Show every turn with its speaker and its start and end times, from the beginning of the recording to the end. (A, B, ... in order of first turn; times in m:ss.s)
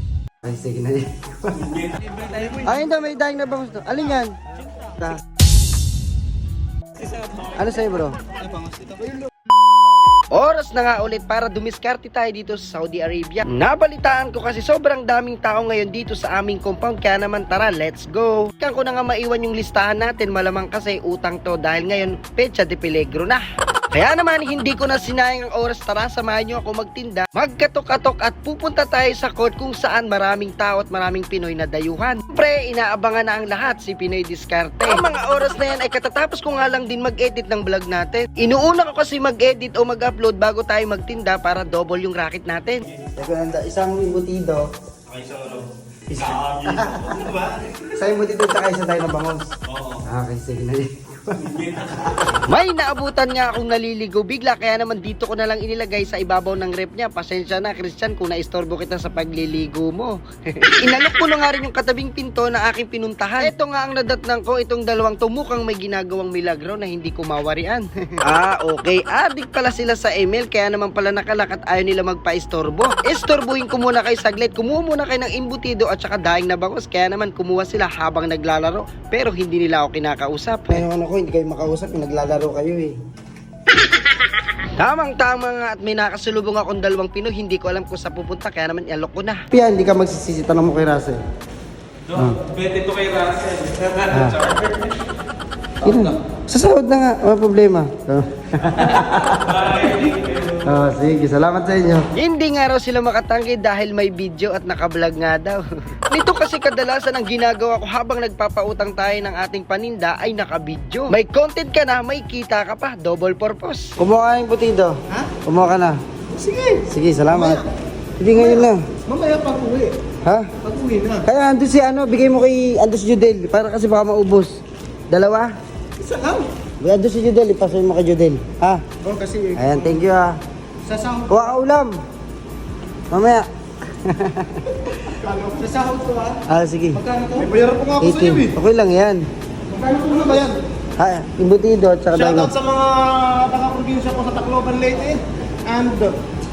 0:00.4-0:01.8 A
0:02.6-0:04.3 A
0:07.5-0:08.2 A
0:08.5-0:09.2 B
0:10.3-0:23.4 A
0:23.9-0:44.7 A
0:45.1-0:45.7 C
0:46.1-0:49.5 A
0:46.2-0:47.0 C
0:47.0-0:47.7 B
0:49.7-0:50.0 C
0:50.0-1:23.0 A
1:24.8-1:31.2 A
1:32.1-1:32.4 A
1:32.4-1:34.6 C
1:34.0-1:34.5 A
1:35.8-1:56.0 A
1:56.3-1:57.6 B
1:56.9-1:57.6 A
1:58.2-1:58.8 A
1:58.3-1:59.9 B
2:00.2-2:00.5 A
2:00.6-2:01.2 B
2:01.2-2:04.5 A
2:05.1-2:05.5 A
2:06.0-2:06.5 B
2:06.8-2:08.8 A
2:09.0-2:10.0 B
2:09.6-2:10.4 A
2:10.8-2:11.5 B
2:11.3-2:11.9 A
2:13.1-2:15.2 A
2:14.9-2:16.4 B
2:16.5-2:17.0 A
2:17.0-2:18.6 B
2:18.0-2:19.2 A
2:19.7-2:20.6 B
2:21.0-2:22.5 A
2:22.1-2:26.2 B